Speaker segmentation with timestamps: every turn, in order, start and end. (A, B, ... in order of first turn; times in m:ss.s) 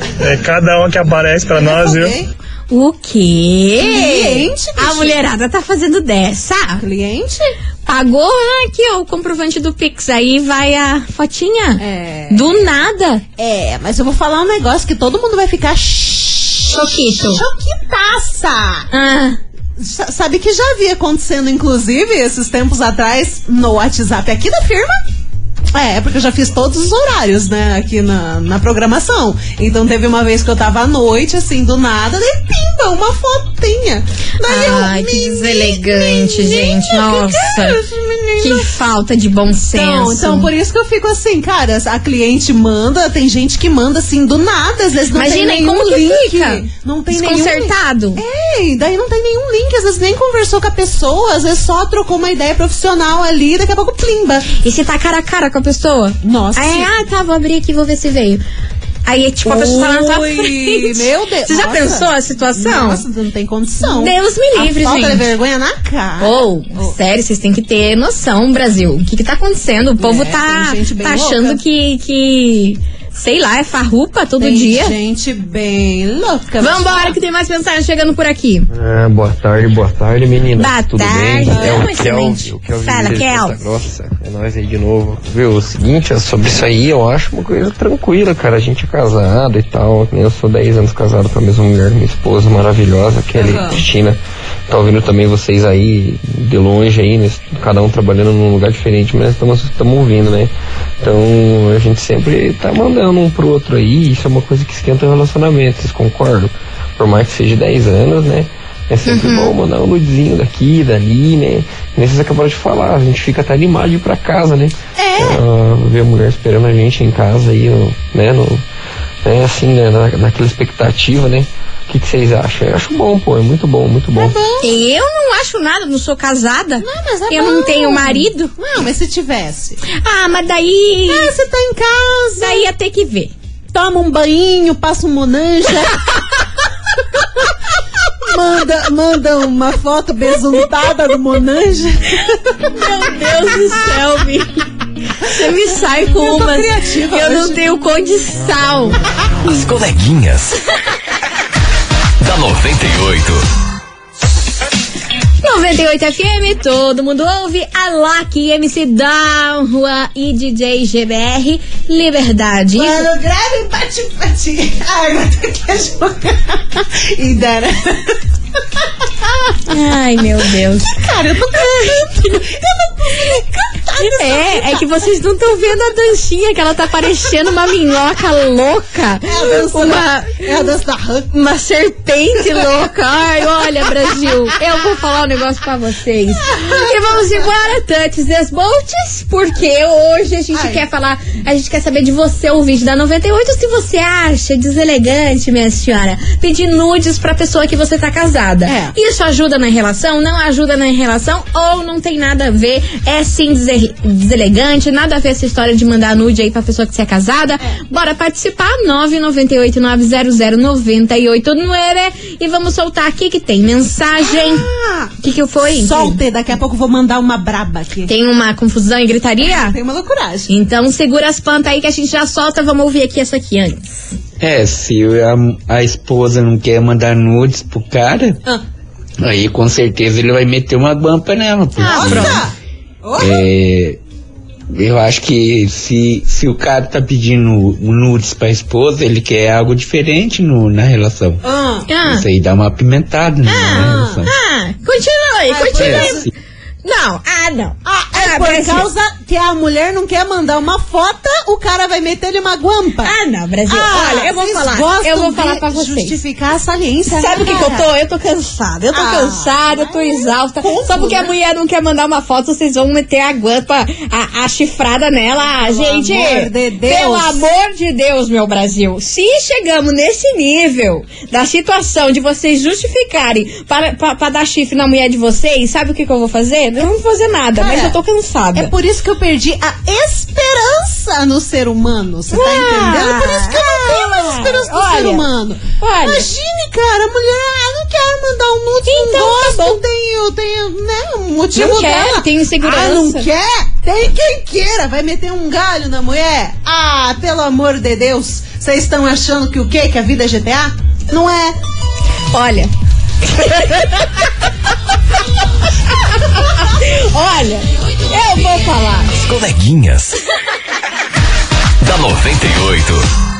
0:00.2-0:02.1 A
0:01.6-0:02.3 B
0:02.7-0:06.8 C
0:03.8-0:05.2 B
0:06.8-0:07.5 B
0:07.8-0:13.2 C
0:11.8-0:12.5 B
0:13.4-0:18.9 B
0:16.7-0:17.4 C
0:18.9-0:19.4 C
0:19.8-0:25.0 B
0:25.7-0:38.7 B
0:34.4-0:37.8 C
0:38.4-0:40.5 C
0:39.7-0:54.5 B
0:45.1-0:48.2 C
0:54.6-0:58.4 C
0:56.2-0:56.9 B
0:59.0-1:03.0 C
0:59.4-1:07.0 B
1:03.8-1:05.3 C
1:06.2-1:14.9 C
1:10.0-1:11.6 B
1:14.4-1:17.1 B
1:16.6-1:18.7 C
1:18.7-1:58.6 D
1:20.5-1:23.6 C
1:21.5-1:21.9 B
1:33.4-1:33.8 B
1:49.0-1:49.5 C
1:55.0-1:55.4 B
1:59.2-2:04.3 D
2:04.1-2:04.7 B
2:04.6-2:08.5 C
2:06.8-2:09.8 B
2:10.0-2:11.3 C
2:11.1-2:12.6 B
2:12.4-2:13.3 C
2:13.7-2:16.1 B
2:18.2-2:22.7 B
2:22.7-2:24.6 C
2:25.2-2:27.7 B
2:25.2-2:29.0 C
2:29.4-2:30.6 E
2:32.2-2:33.4 E
2:35.4-2:43.1 C
2:42.8-2:48.2 B
2:48.8-2:49.7 B
2:49.7-2:52.4 C
2:50.9-2:55.0 B
2:54.0-3:00.7 C
2:59.2-3:01.3 B
3:01.3-3:34.7 C
3:06.4-3:07.2 B
3:10.5-3:10.8 B
3:18.6-3:18.9 B
3:34.2-3:35.1 B
3:35.2-3:36.2 C
3:35.7-3:38.1 B
3:38.1-3:39.8 C
3:39.4-3:40.5 B
3:40.5-3:43.8 C
3:44.4-3:48.4 F
3:49.2-3:52.4 F
3:51.8-3:52.4 C
3:51.8-3:53.4 B
3:53.2-3:54.0 F
3:54.7-4:01.4 F
4:01.4-4:01.9 B
4:01.9-4:02.2 C
4:02.0-4:04.3 F
4:03.5-4:06.3 C
4:03.7-4:04.2 B
4:05.5-4:06.3 B
4:05.8-4:06.3 F
4:06.8-4:08.9 C
4:07.8-4:13.1 B
4:13.0-4:16.2 C
4:13.7-4:17.9 B
4:17.1-4:38.7 C
4:18.9-4:21.3 B
4:25.6-4:27.4 B
4:37.6-4:38.0 B
4:38.5-5:01.6 B
4:42.3-4:45.2 C
4:45.8-4:46.3 C
4:48.9-4:49.8 C
4:51.5-4:53.3 C
5:02.3-5:02.7 C
5:03.2-5:04.2 C
5:06.1-5:09.1 C
5:09.1-5:10.2 E
5:11.8-5:13.1 E